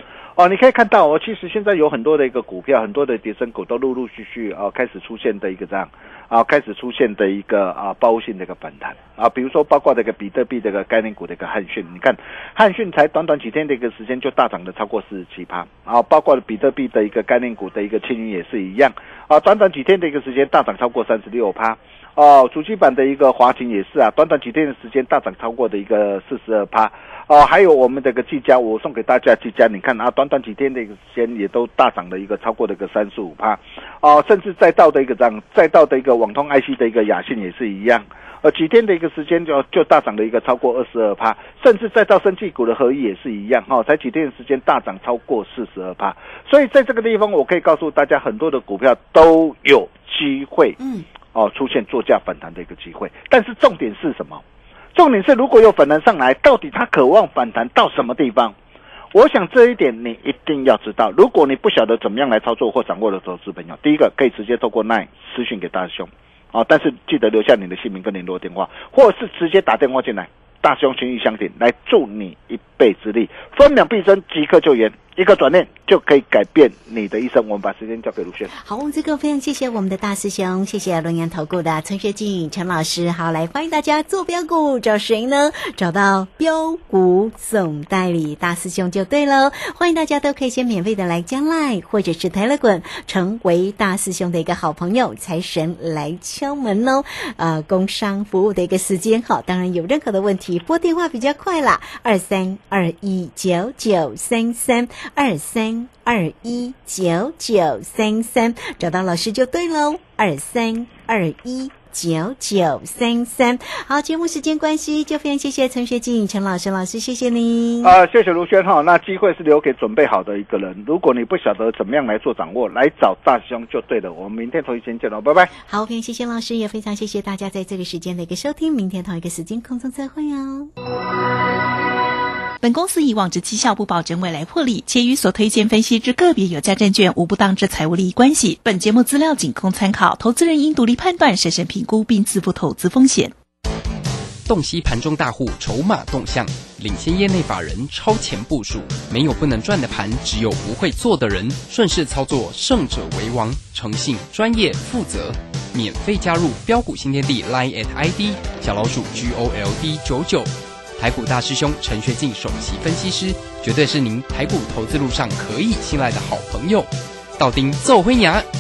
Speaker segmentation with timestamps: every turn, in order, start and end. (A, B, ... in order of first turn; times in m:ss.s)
0:00.4-0:50.8 A
0:50.8-0:51.0 B
0:51.3-0:54.4 A
0:55.0-0:58.5 A
0:59.1-1:18.5 A
1:18.6-1:58.0 B
1:57.8-2:05.5 A
2:05.6-2:10.7 B
2:12.6-2:23.3 C
2:24.5-2:48.5 D